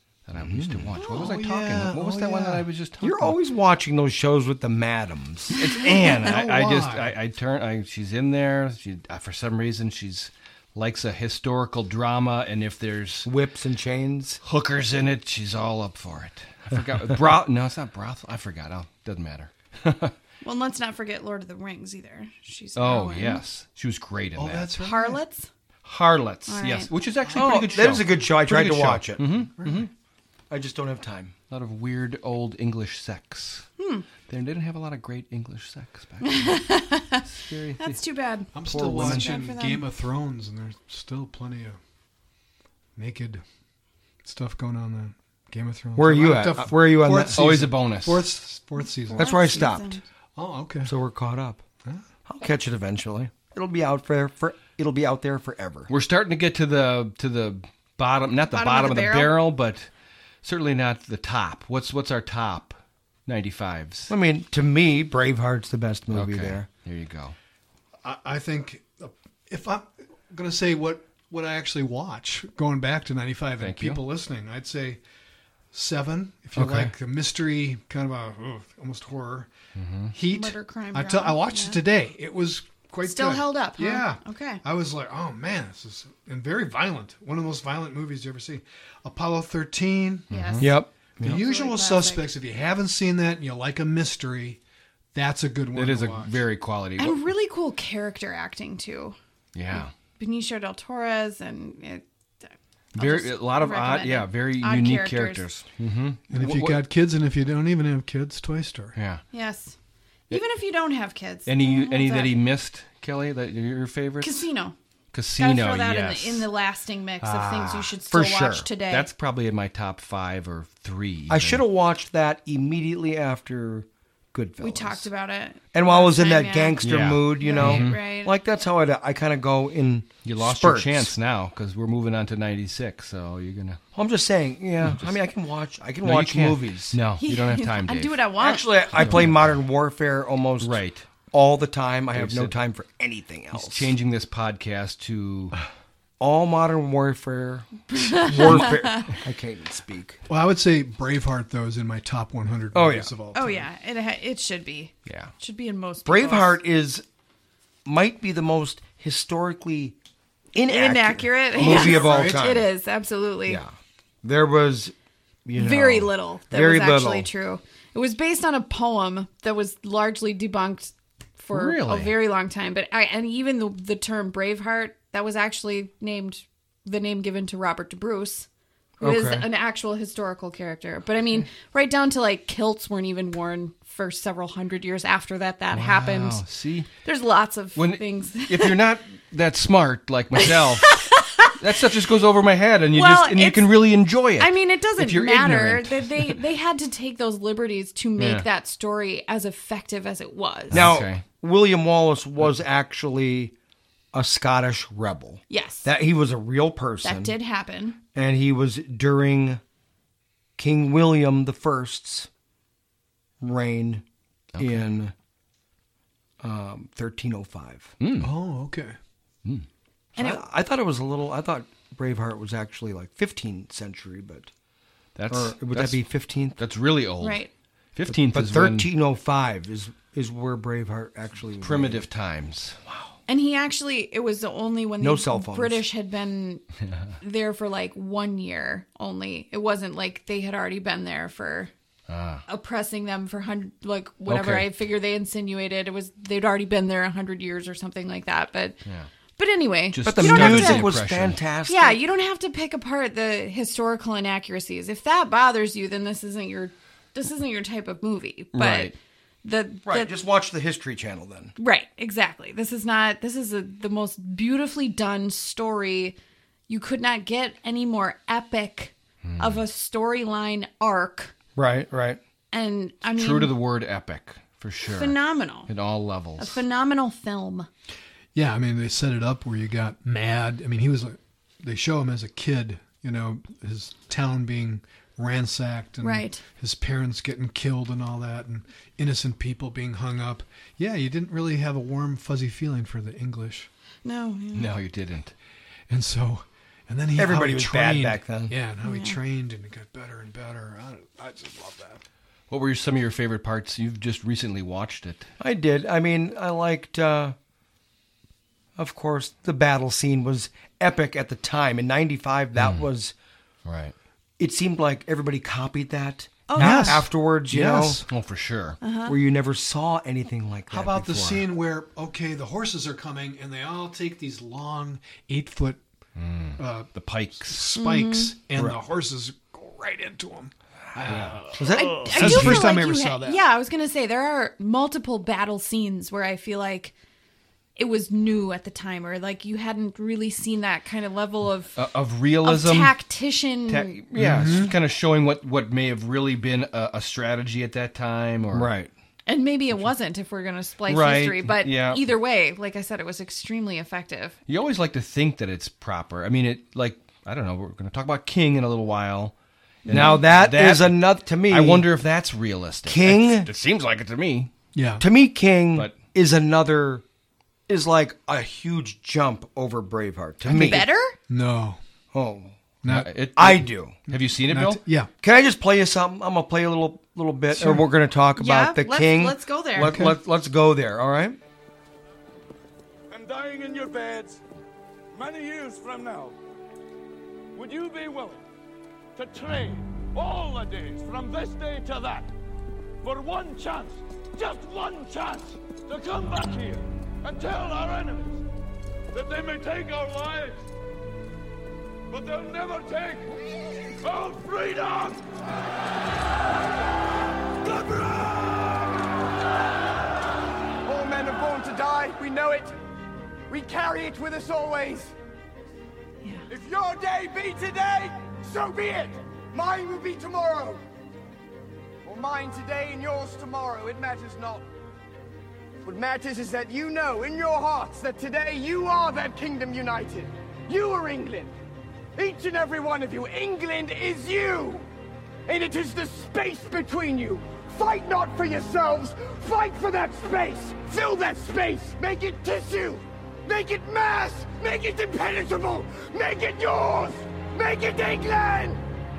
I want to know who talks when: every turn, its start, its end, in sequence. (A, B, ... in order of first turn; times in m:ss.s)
0:00.3-0:03.4 A
0:00.4-0:01.0 B
0:01.0-0:01.3 C
0:01.1-0:02.7 D
0:03.0-0:05.6 B
0:05.5-0:13.3 A
0:05.8-0:06.1 C
0:06.1-0:07.1 D
0:13.2-0:14.4 B
0:14.4-0:20.1 A
0:20.4-0:23.4 C
0:22.8-0:24.7 A
0:24.4-0:25.2 D
0:24.8-0:25.5 C
0:25.8-0:29.9 A
0:26.5-0:26.9 C
0:27.2-0:27.9 D
0:27.3-0:29.3 B
0:29.6-0:29.8 D
0:30.5-0:31.3 B
0:31.5-0:33.7 A
0:33.8-0:34.1 C
0:34.3-0:36.6 A
0:36.2-0:37.3 C
0:37.2-0:38.0 A
0:37.8-0:39.8 C
0:38.5-0:41.8 D
0:38.7-0:39.3 A
0:38.8-0:39.1 B
0:43.0-0:43.4 D
0:44.2-0:49.4 D
0:46.0-0:47.4 B
0:47.3-0:48.3 A
0:49.1-0:50.0 C
0:49.1-0:50.0 B
0:50.4-0:50.9 D
0:50.8-0:51.6 B
0:52.3-0:55.9 B
0:55.9-0:59.9 A
0:58.5-0:59.4 C
1:00.4-1:04.1 A
1:04.1-1:06.7 B
1:06.1-1:07.4 A
1:08.0-1:15.0 D
1:13.6-1:14.0 A
1:15.7-1:19.5 D
1:16.6-1:16.9 A
1:16.6-1:16.9 B
1:19.7-1:20.1 A
1:20.1-1:30.3 D
1:20.3-1:21.8 C
1:23.0-1:24.6 C
1:30.3-1:30.7 A
1:30.3-1:32.3 C
1:30.6-1:31.4 B
1:31.2-1:34.6 D
1:35.1-1:36.4 D
1:35.7-1:37.2 A
1:37.0-1:39.2 C
1:39.6-1:39.9 A
1:39.7-1:45.5 C
1:43.0-1:46.8 A
1:46.3-1:49.0 D
1:49.0-1:49.2 A
1:49.3-1:49.7 C
1:50.3-1:52.3 C
1:51.4-1:54.5 A
1:54.2-1:54.7 C
1:55.1-1:56.5 A
1:55.4-1:59.1 C
1:57.2-1:57.9 A
1:58.1-1:58.7 B
1:58.9-2:01.6 A
2:01.3-2:05.1 B
2:04.6-2:08.3 C
2:05.7-2:11.1 B
2:06.8-2:08.0 A
2:10.2-2:13.8 A
2:13.9-2:17.0 B
2:14.8-2:15.2 A
2:16.0-2:18.2 A
2:17.2-2:19.2 C
2:18.4-2:20.8 B
2:19.0-2:19.5 A
2:20.6-2:21.1 A
2:21.3-2:23.9 B
2:22.1-2:22.6 A
2:23.5-2:25.6 A
2:26.2-2:30.2 B
2:27.9-2:29.1 C
2:30.3-2:33.7 D
2:32.7-2:33.1 B
2:33.3-2:36.6 C
2:35.1-2:35.3 A
2:36.0-2:37.0 B
2:37.8-2:40.0 B
2:40.6-2:42.7 B
2:40.7-2:43.6 C
2:41.6-2:42.4 D
2:43.5-2:44.9 B
2:45.4-2:47.3 B
2:45.6-2:58.5 C
2:51.5-2:52.1 A
2:59.0-3:06.4 C
2:59.0-2:59.5 B
3:05.7-3:06.9 A
3:07.0-3:08.8 C
3:07.8-3:11.0 A
3:10.4-3:11.5 C
3:11.6-3:16.4 A
3:12.9-3:13.7 C
3:14.4-3:20.8 C
3:18.2-3:18.4 A
3:20.7-3:21.2 A
3:20.7-3:23.5 B
3:24.1-3:27.4 B
3:25.5-3:25.9 C
3:27.0-3:28.0 C
3:28.1-3:29.6 B
3:30.6-3:32.3 B
3:33.4-3:34.0 B
3:34.6-3:34.8 A
3:34.6-3:35.1 B
3:36.4-3:38.0 B
3:38.0-3:38.3 A
3:38.2-3:39.0 D
3:40.2-3:40.4 C
3:40.2-3:44.5 B
3:45.2-3:46.0 A
3:45.3-3:46.6 B
3:46.6-3:47.4 A
3:47.2-3:47.5 C
3:48.0-3:48.9 A
3:48.1-3:52.0 B
3:51.6-3:52.8 A
3:53.3-3:56.6 C
3:55.0-3:55.8 B
3:57.2-4:01.7 C
4:02.1-4:02.4 A
4:02.5-4:08.8 C
4:04.3-4:04.7 A
4:09.4-4:10.9 C
4:09.9-4:11.4 A
4:10.1-4:12.0 B
4:11.7-4:20.1 C
4:18.5-4:18.9 A
4:19.9-4:21.5 B
4:21.6-4:26.2 C
4:26.7-4:31.3 C
4:29.2-4:29.6 A
4:31.6-4:32.2 B
4:32.5-4:33.5 C
4:33.1-4:35.2 A
4:34.8-4:35.7 C
4:35.7-4:36.6 A
4:36.4-4:37.7 C
4:38.3-4:53.7 D
4:46.0-4:46.4 C
4:54.0-4:54.7 C
4:54.5-4:55.3 A
4:55.9-5:02.0 D
4:57.1-4:58.6 B
4:58.8-4:59.2 C
5:02.5-5:05.3 A
5:05.4-5:07.4 B
5:08.8-5:13.1 B
5:12.6-5:12.9 A
5:13.7-5:14.0 A
5:14.4-5:18.0 B
5:16.5-5:17.0 C
5:16.6-5:18.1 D
5:18.1-5:18.8 A
5:18.8-5:19.2 C
5:19.1-5:21.5 B
5:20.7-5:25.8 D
5:26.2-5:27.7 A
5:26.6-5:33.4 D
5:27.8-5:28.4 C
5:31.1-5:31.4 A
5:31.6-5:32.7 B
5:31.8-5:36.9 C
5:37.8-5:41.8 C
5:41.7-5:42.9 A
5:42.4-5:44.0 C
5:43.7-5:48.7 A
5:44.1-5:44.7 D
5:48.5-5:48.9 B
5:49.3-5:54.4 C
5:50.9-5:52.0 A
5:54.5-5:59.4 A
5:59.9-6:00.2 C
5:59.9-6:04.5 A
5:59.9-6:01.9 B
6:02.9-6:03.5 B
6:04.7-6:05.0 D
6:05.0-6:07.0 B
6:07.7-6:10.9 B
6:10.4-6:11.2 C
6:11.3-6:11.8 D
6:12.1-6:12.6 B
6:12.8-6:13.1 D
6:12.9-6:14.8 A
6:13.4-6:14.0 B
6:14.1-6:15.1 D
6:15.2-6:21.4 B
6:17.5-6:17.8 D
6:18.4-6:20.0 C
6:19.8-6:20.2 D
6:23.1-6:24.4 E
6:25.1-6:26.4 E
6:27.6-6:28.4 E
6:29.1-6:32.3 E
6:33.0-6:38.4 E
6:39.1-6:40.6 E
6:42.1-6:43.3 E
6:44.0-6:45.3 E
6:47.6-6:48.6 E
6:50.8-6:52.7 F
6:53.5-6:55.1 F
6:56.5-7:00.8 F
7:02.0-7:04.6 F
7:05.8-7:11.5 F
7:12.2-7:14.9 F
7:15.5-7:28.8 F